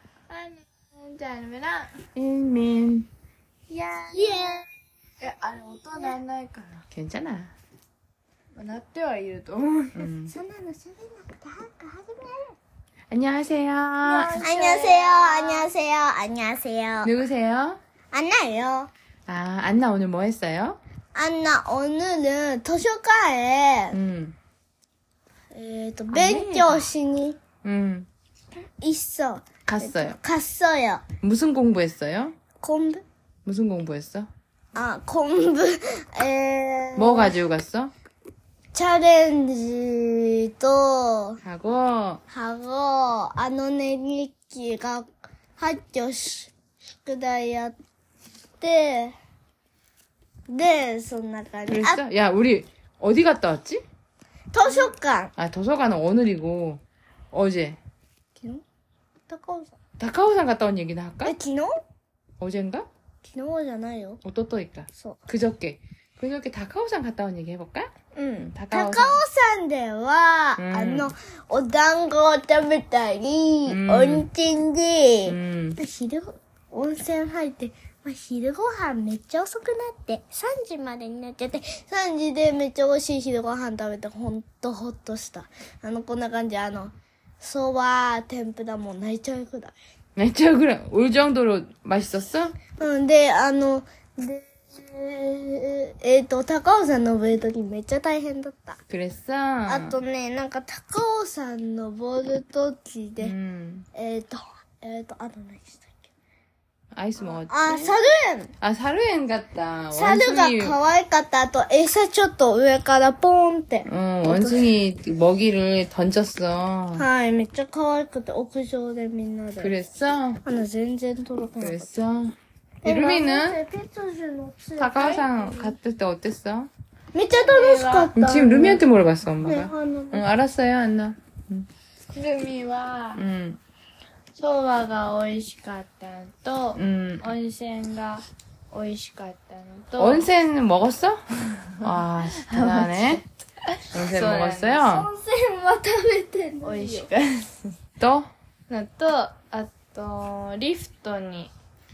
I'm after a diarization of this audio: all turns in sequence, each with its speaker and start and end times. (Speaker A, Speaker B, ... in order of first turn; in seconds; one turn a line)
Speaker A: 0.3-1.9
Speaker B: 2.1-3.1
Speaker A: 3.7-4.6
Speaker C: 4.1-4.6
Speaker A: 5.2-6.8
Speaker B: 6.9-7.5
Speaker A: 8.6-10.1
Speaker B: 9.9-10.3
Speaker C: 10.3-12.6
Speaker B: 13.1-14.4
Speaker A: 14.0-15.7
Speaker C: 14.4-17.1
Speaker B: 17.0-17.8
Speaker C: 18.1-18.9
Speaker B: 19.3-20.8
Speaker C: 21.1-24.0
Speaker B: 23.9-24.4
Speaker C: 25.5-27.4
Speaker B: 26.1-26.9
Speaker B: 27.6-28.1
Speaker C: 28.8-31.0
Speaker B: 29.7-30.2
Speaker B: 31.2-32.3
Speaker C: 32.6-33.0
Speaker B: 33.5-34.3
Speaker C: 34.7-37.3
Speaker B: 37.0-37.9
Speaker C: 38.7-41.4
Speaker B: 41.4-42.2
Speaker C: 42.3-47.7
Speaker C: 48.6-49.1
Speaker C: 50.5-52.0
Speaker B: 51.7-53.8
Speaker C: 54.5-55.3
Speaker B: 55.4-56.8
Speaker B: 57.3-57.8
Speaker C: 58.4-58.6
Speaker C: 59.3-59.7
Speaker B: 60.0-61.3
Speaker C: 61.2-61.7
Speaker B: 62.4-62.9
Speaker C: 63.2-64.2
Speaker B: 64.2-69.2
Speaker C: 65.0-65.2
Speaker C: 68.1-89.7
Speaker B: 70.6-71.1
Speaker B: 73.7-74.3
Speaker B: 75.3-75.8
Speaker B: 90.2-92.6
Speaker C: 92.7-98.8
Speaker B: 98.9-100.0
Speaker C: 99.7-103.3
Speaker B: 103.2-103.9
Speaker C: 103.9-105.9
Speaker B: 106.9-108.0
Speaker C: 107.5-108.5
Speaker B: 108.6-110.8
Speaker C: 109.9-114.6
Speaker B: 113.8-117.0
Speaker C: 117.0-119.8
Speaker B: 119.6-120.4
Speaker C: 120.4-121.9
Speaker B: 121.6-123.6
Speaker C: 122.8-125.7
Speaker B: 124.8-126.7
Speaker A: 125.0-125.3
Speaker C: 127.1-128.8
Speaker A: 127.3-128.3
Speaker B: 128.2-131.7
Speaker C: 129.4-130.2
Speaker A: 132.1-133.2
Speaker B: 133.1-133.6
Speaker A: 134.3-140.2
Speaker B: 136.8-137.3
Speaker B: 140.0-141.2
Speaker A: 141.8-144.9
Speaker B: 141.8-143.2
Speaker B: 143.9-145.1
Speaker C: 144.8-147.1
Speaker A: 146.6-147.7
Speaker B: 148.0-148.3
Speaker A: 148.7-151.5